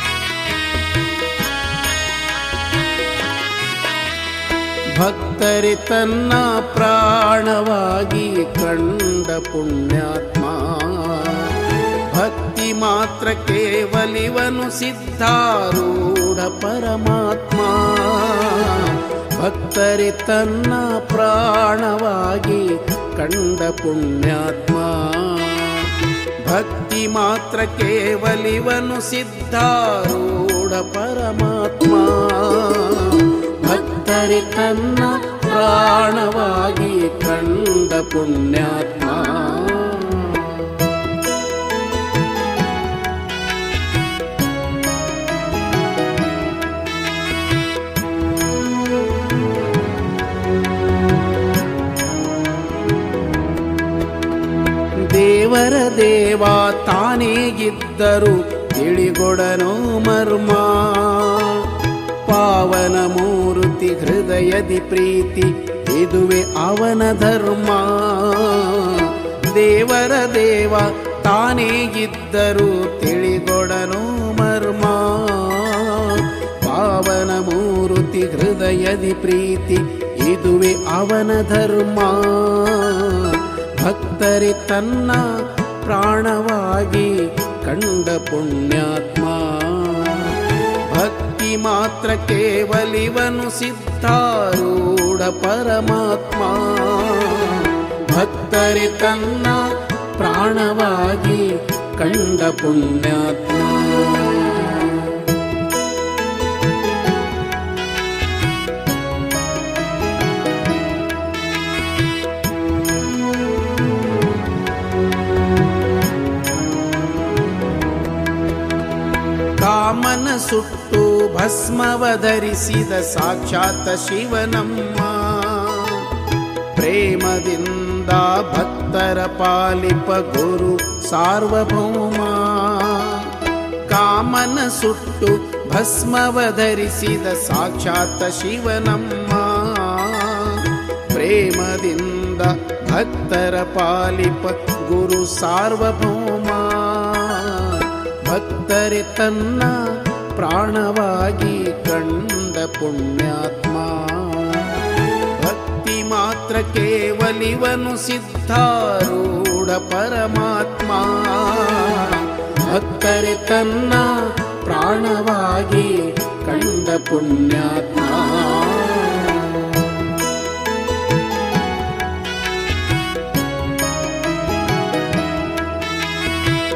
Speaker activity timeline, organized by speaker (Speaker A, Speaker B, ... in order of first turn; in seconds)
Speaker A: 4.9-40.8, 55.1-105.3, 119.6-126.1, 126.7-133.3, 133.9-170.0